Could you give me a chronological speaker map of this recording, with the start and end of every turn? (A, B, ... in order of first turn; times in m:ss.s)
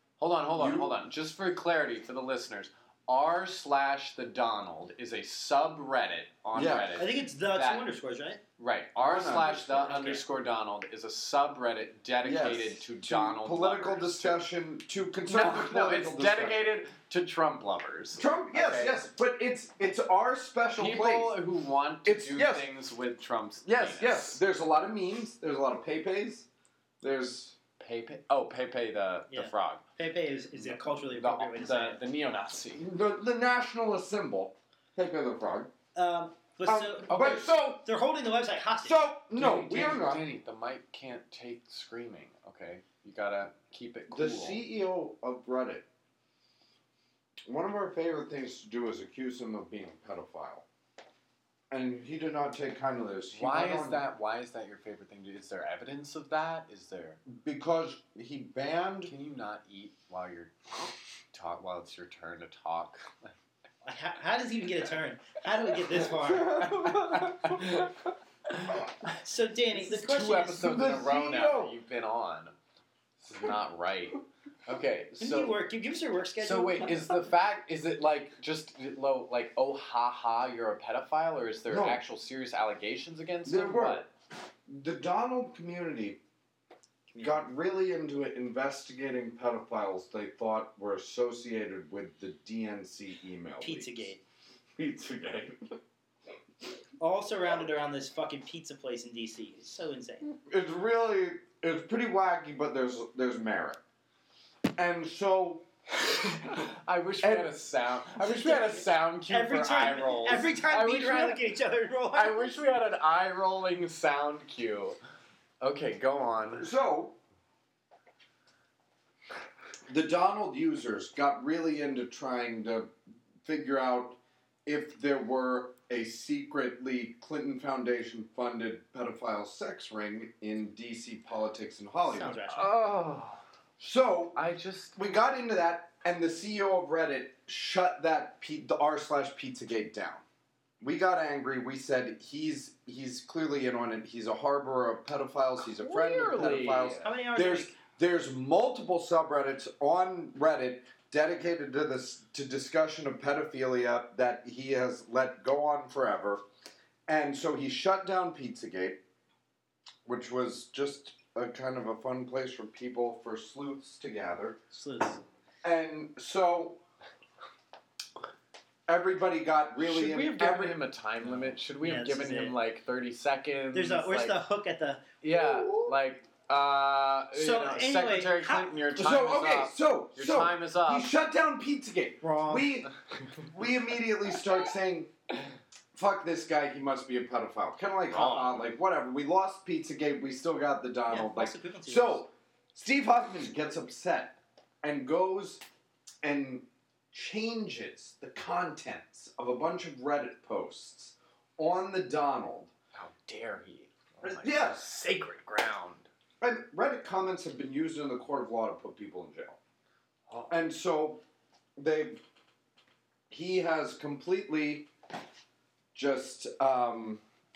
0:00.2-0:07.8 A
0:00.6-0:00.9 B
0:06.5-0:07.0 B
0:07.0-0:08.4 C
0:08.6-0:14.4 A
0:09.0-0:10.2 B
0:12.2-0:16.6 B
0:15.2-0:19.0 A
0:18.2-0:21.3 B
0:20.8-0:24.4 A
0:22.0-0:22.6 B
0:23.6-0:26.5 B
0:27.0-0:27.6 B
0:27.8-0:29.8 A
0:29.3-0:32.0 C
0:30.5-0:32.8 A
0:32.8-0:35.7 B
0:35.9-0:39.0 C
0:36.6-0:37.8 B
0:38.8-0:40.2 B
0:39.3-0:44.6 A
0:44.1-0:45.8 B
0:47.5-0:50.6 B
0:51.7-0:54.0 B
0:53.3-0:57.2 A
0:57.2-0:59.1 B
0:59.0-1:03.3 A
1:03.8-1:06.7 C
1:06.0-1:07.9 B
1:06.6-1:07.9 A
1:08.5-1:09.1 A
1:09.2-1:10.8 C
1:09.7-1:12.5 A
1:10.6-1:11.7 B
1:13.2-1:15.6 A
1:15.2-1:17.1 C
1:16.4-1:24.1 A
1:21.7-1:22.0 B
1:23.4-1:24.1 B
1:24.7-1:26.2 B
1:27.1-1:27.4 C
1:27.2-1:34.1 B
1:33.6-1:34.2 C
1:34.8-1:35.8 B
1:37.0-1:40.2 C
1:40.2-1:43.8 B
1:44.8-1:46.7 B
1:46.5-1:51.4 A
1:47.2-1:47.5 B
1:48.2-1:52.6 C
1:52.1-1:55.0 A
1:55.6-1:56.7 A
1:56.6-1:57.2 B
1:59.9-2:13.0 B
2:12.0-2:12.7 C
2:12.5-2:13.4 A
2:13.8-2:20.2 B
2:14.3-2:15.0 A
2:20.8-2:36.4 B
2:25.6-2:27.1 A
2:27.0-2:27.8 C
2:37.1-2:39.0 B
2:40.0-2:44.6 B
2:44.7-2:45.2 C
2:45.6-2:46.8 B
2:48.9-2:50.8 B
2:49.8-2:54.4 A
2:51.6-2:52.6 C
2:53.7-2:55.1 C
2:55.2-3:01.1 A
2:55.3-2:55.9 B
2:57.3-2:58.8 C
2:59.0-3:05.1 B
3:02.2-3:02.8 C
3:05.9-3:15.6 B
3:08.1-3:08.7 A
3:11.1-3:12.2 C
3:16.2-3:22.7 B
3:22.9-3:26.1 A
3:24.2-3:24.9 B
3:26.4-3:29.6 B
3:30.3-3:30.5 A
3:30.5-3:31.2 B
3:31.8-3:32.2 B
3:33.3-3:34.9 B
3:35.9-3:37.2 B